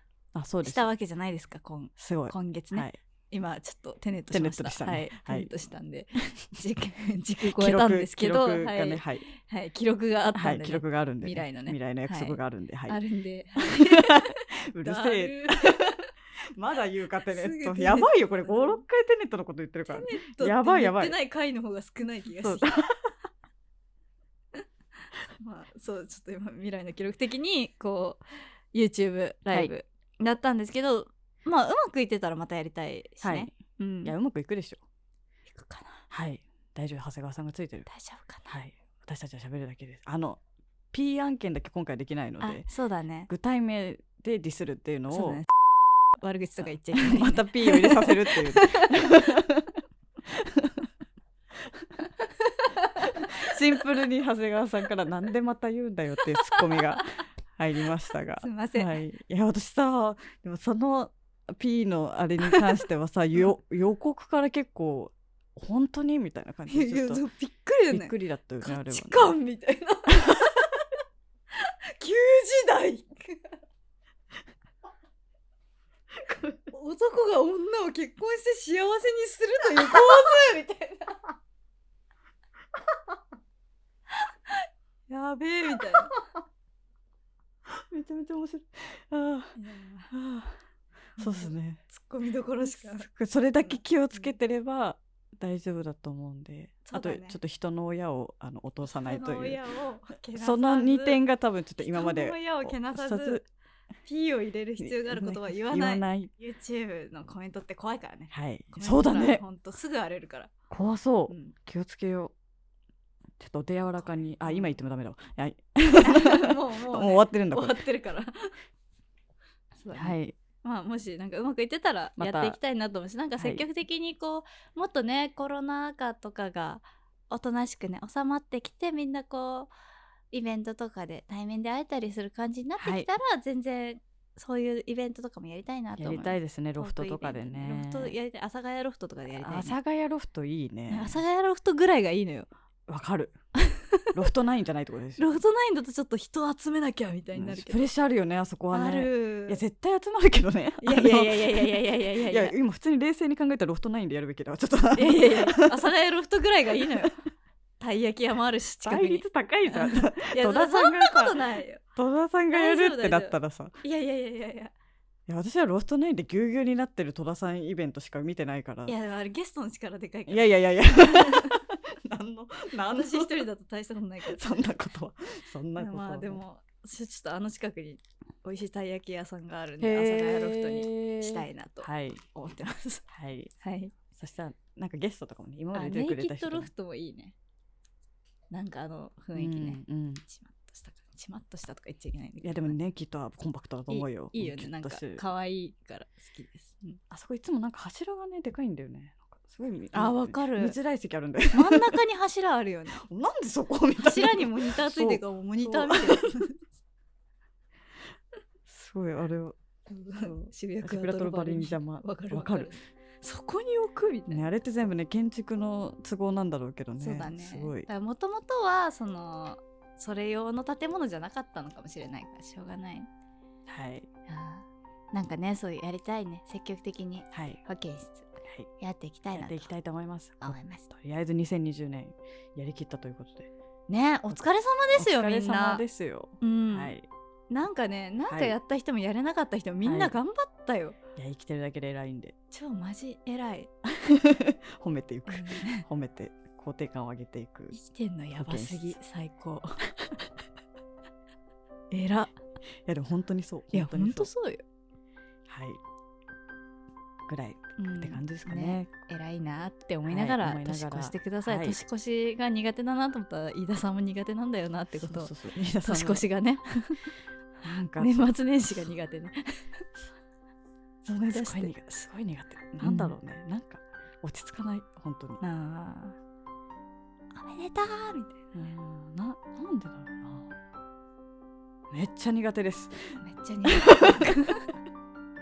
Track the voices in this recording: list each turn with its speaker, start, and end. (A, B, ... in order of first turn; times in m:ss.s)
0:00.3-0:00.9 A
0:00.6-0:16.0 B
0:02.0-0:03.0 A
0:04.3-0:05.5 A
0:07.4-0:09.2 A
0:10.3-0:13.0 A
0:13.6-0:21.2 A
0:17.2-0:18.8 B
0:19.9-0:22.9 B
0:22.4-0:23.1 A
0:25.4-0:34.1 B
0:33.2-0:34.8 A
0:35.5-0:36.1 B
0:36.1-0:37.9 A
0:37.9-0:38.5 B
0:38.5-0:40.4 A
0:40.9-0:42.7 A
0:42.4-0:43.3 B
0:43.3-0:45.4 A
0:45.1-0:45.5 B
0:46.1-0:49.3 B
0:46.9-0:50.9 A
0:51.6-0:51.9 A
0:52.4-0:53.6 B
0:53.0-1:07.2 A
0:56.5-0:57.1 B
0:58.4-0:59.0 B
1:06.7-1:10.8 B
1:07.9-1:09.3 A
1:11.5-1:13.6 B
1:16.7-1:21.4 B
1:25.1-1:26.1 B
1:27.7-1:29.6 A
1:29.6-1:30.1 B
1:30.1-1:30.6 A
1:31.2-1:33.1 B
1:31.2-1:31.8 A
1:32.6-1:39.6 A
1:33.6-1:34.3 B
1:36.9-1:37.4 B
1:38.8-1:41.2 B
1:40.4-1:43.5 A
1:41.8-1:43.4 B
1:44.0-1:50.5 B
1:44.8-1:46.3 A
1:48.3-1:49.4 A
1:50.7-1:52.3 A
1:51.3-1:51.6 B
1:53.4-1:57.8 A
1:54.0-1:54.7 B
1:56.0-1:58.5 B
1:59.8-2:09.7 B
1:59.9-2:00.4 A
2:02.2-2:02.6 A
2:03.4-2:03.6 A
2:10.3-2:19.8 B
2:12.8-2:13.1 A
2:16.0-2:18.1 A
2:19.4-2:21.2 A
2:20.9-2:22.5 B
2:22.9-2:23.4 A
2:23.6-2:24.1 B
2:24.1-2:25.3 A
2:25.2-2:27.9 B
2:27.3-2:35.9 A
2:28.7-2:29.6 B
2:30.8-2:32.5 B
2:34.9-2:37.2 B
2:36.8-2:37.1 A
2:37.8-2:41.8 B
2:38.8-2:43.8 A
2:42.5-2:44.7 B
2:45.3-2:48.9 A
2:48.8-2:51.6 B
2:50.3-2:53.4 A
2:52.9-2:54.4 B
2:54.2-2:56.4 A
2:55.8-3:03.0 B
2:59.8-3:02.2 A
3:03.1-3:03.5 A
3:03.6-3:03.9 B
3:04.1-3:06.7 A
3:05.7-3:07.3 B
3:08.5-3:12.8 B
3:09.3-3:10.2 A
3:12.4-3:15.2 A
3:13.9-3:17.0 B
3:17.1-3:22.0 A
3:19.9-3:20.8 B
3:21.5-3:23.0 B
3:23.0-3:26.4 A
3:24.0-3:26.6 B
3:28.7-3:29.6 A
3:29.9-3:34.4 B
3:30.2-3:32.7 A
3:34.3-3:37.9 A
3:37.0-3:43.1 B
3:43.7-3:44.1 A
3:44.3-3:49.7 B
3:47.3-3:47.6 A
3:49.3-3:53.5 A
3:50.4-3:50.9 B
3:53.9-3:55.8 B
3:55.0-3:57.1 A
3:56.4-3:56.9 B
3:57.5-4:01.0 B
3:58.3-3:58.6 A
3:59.8-4:00.2 A
4:01.2-4:02.3 A
4:02.5-4:03.7 B
4:03.8-4:07.7 A
4:05.3-4:05.8 B
4:07.7-4:09.8 B
4:08.3-4:09.0 A
4:11.9-4:12.3 B
4:12.8-4:14.3 A
4:13.7-4:14.6 B
4:15.5-4:15.8 A
4:17.3-4:18.9 A
4:17.8-4:25.3 B
4:20.1-4:21.8 A
4:25.0-4:26.2 A
4:25.8-4:27.1 B
4:27.6-4:28.4 A
4:28.0-4:29.4 B
4:31.0-4:35.4 A
4:31.3-4:31.7 B
4:32.8-4:33.2 B
4:35.4-4:36.2 B
4:37.3-4:38.4 B
4:38.5-4:40.5 A
4:41.9-4:44.3 A
4:43.2-4:44.7 B